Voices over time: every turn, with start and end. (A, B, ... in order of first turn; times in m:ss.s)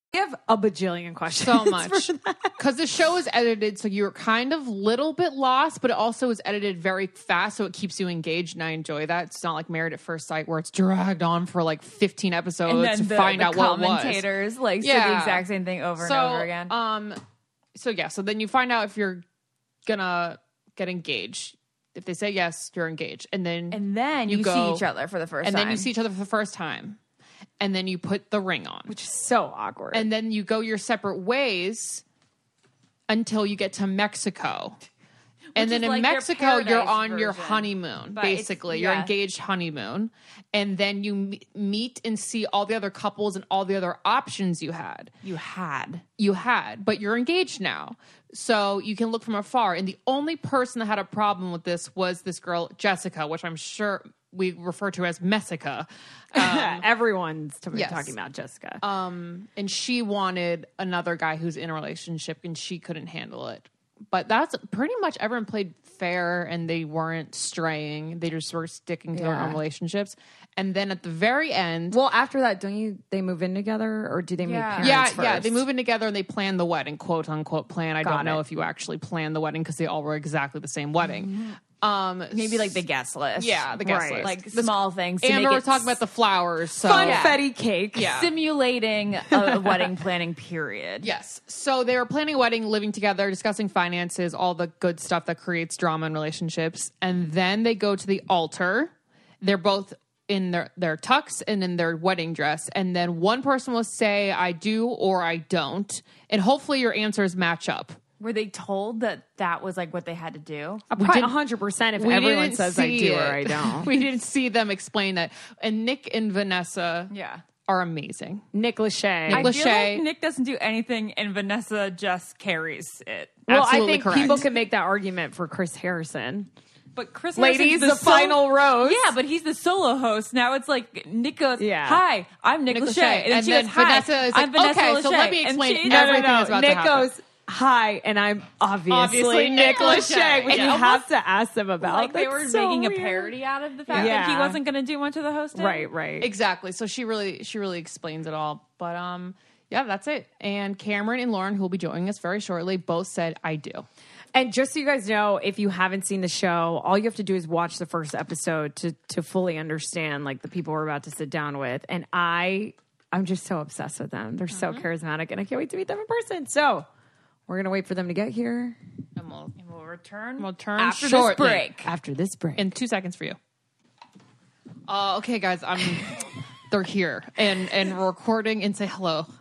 0:00.1-0:02.5 A
0:01.4-0:02.1 B
0:02.6-0:14.2 B
0:12.6-0:16.7 C
0:14.8-0:15.5 B
0:16.0-0:17.2 B
0:17.8-0:19.2 B
0:19.9-0:24.9 B
0:23.7-0:25.9 C
0:25.4-0:27.0 B
0:27.6-0:28.9 B
0:28.9-0:30.1 A
0:29.9-0:32.0 B
0:33.1-0:34.8 B
0:35.6-0:39.1 C
0:35.6-0:45.1 B
0:45.2-0:46.0 C
0:46.2-0:56.8 B
0:56.3-0:58.8 A
0:57.7-0:58.1 B
0:58.8-1:12.0 B
1:09.1-1:09.6 A
1:11.9-1:15.6 A
1:14.4-1:15.0 C
1:14.8-1:22.8 B
1:18.0-1:18.4 A
1:21.0-1:21.6 C
1:22.3-1:26.0 C
1:23.4-1:27.4 B
1:23.8-1:24.4 A
1:26.8-1:28.2 A
1:26.9-1:27.4 C
1:28.0-1:28.3 B
1:28.1-1:31.1 C
1:29.4-1:29.9 A
1:31.0-1:48.0 B
1:48.2-1:50.9 C
1:50.9-1:51.4 B
1:51.0-1:53.9 A
1:52.0-1:57.1 B
1:57.1-1:57.4 C
1:57.6-1:58.4 B
1:58.5-1:59.5 A
1:59.2-2:00.0 B
1:59.3-2:03.4 C
2:03.5-2:04.5 B
2:03.5-2:06.5 A
2:07.0-2:16.4 C
2:07.4-2:09.1 A
2:11.6-2:12.0 A
2:12.7-2:17.1 B
2:15.9-2:23.3 A
2:18.9-2:21.0 B
2:19.8-2:20.8 C
2:21.8-2:25.9 C
2:23.9-2:24.6 A
2:23.9-2:24.2 B
2:25.5-2:26.3 A
2:26.2-2:33.9 B
2:34.3-2:46.9 A
2:47.5-2:48.8 A
2:49.2-2:49.6 B
2:49.6-2:51.9 C
2:50.4-2:51.8 B
2:51.8-2:52.7 A
2:52.6-2:53.4 B
2:54.9-2:59.3 B